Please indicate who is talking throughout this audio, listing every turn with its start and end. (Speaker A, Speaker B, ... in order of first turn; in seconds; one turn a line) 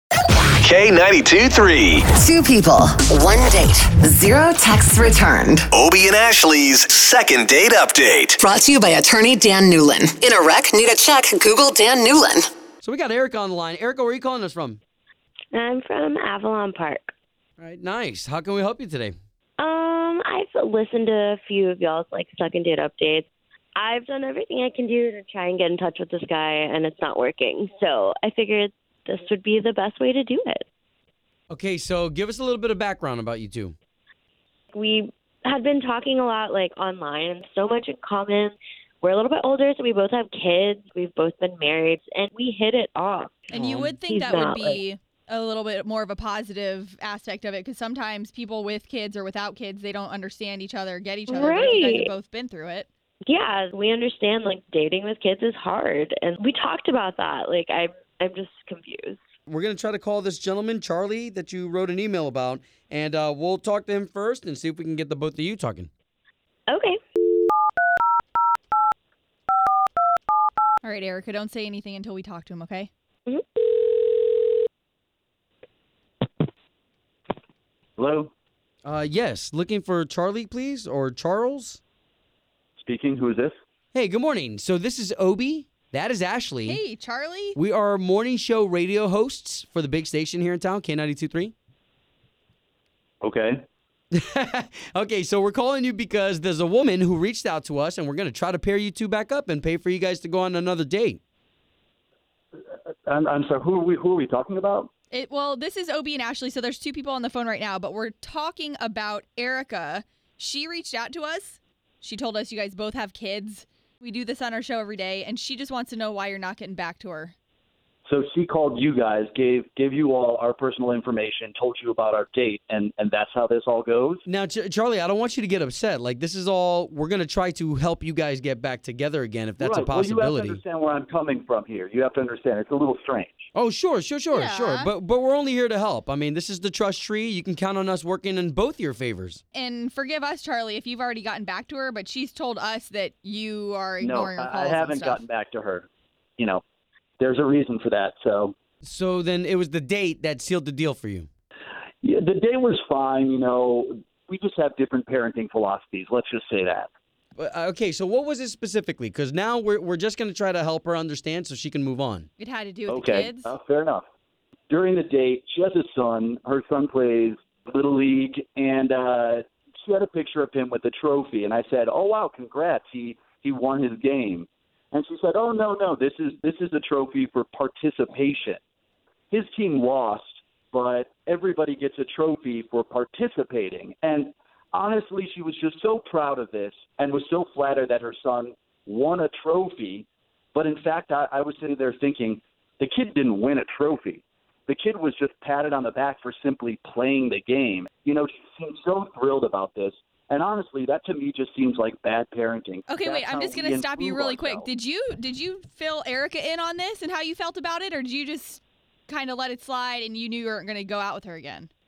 Speaker A: 0.4-2.0
Speaker B: 2.1-5.7
Speaker A: 5.7-8.4
Speaker B: 8.4-12.5
Speaker C: 12.8-14.8
Speaker D: 15.5-17.1
Speaker C: 17.6-19.1
Speaker D: 19.6-30.6
Speaker C: 31.5-33.7
Speaker D: 34.7-43.5
Speaker E: 43.5-52.9
Speaker C: 43.5-43.9
Speaker D: 44.0-44.8
Speaker D: 51.3-52.1
Speaker D: 53.3-59.2
Speaker C: 59.5-65.9
Speaker D: 66.7-67.0
Speaker E: 70.8-72.9
Speaker D: 73.3-73.6
Speaker F: 78.0-78.3
Speaker C: 78.8-81.8
Speaker F: 82.8-83.6
Speaker C: 83.9-86.8
Speaker E: 86.6-87.6
Speaker C: 87.5-91.5
Speaker F: 93.2-93.6
Speaker C: 94.1-101.2
Speaker F: 103.1-104.9
Speaker E: 105.1-117.3
Speaker F: 118.0-124.2
Speaker C: 124.2-130.6
Speaker F: 129.6-133.5
Speaker C: 133.5-139.4
Speaker E: 134.3-134.9
Speaker E: 139.5-145.2
Speaker F: 144.0-145.9
Speaker F: 147.2-148.5
Speaker C: 148.8-151.3
Speaker F: 152.0-156.9
Speaker C: 157.3-162.3
Speaker E: 162.4-163.5
Speaker F: 162.9-164.0
Speaker F: 164.7-178.6
Speaker F: 179.3-204.7
Speaker E: 202.9-211.7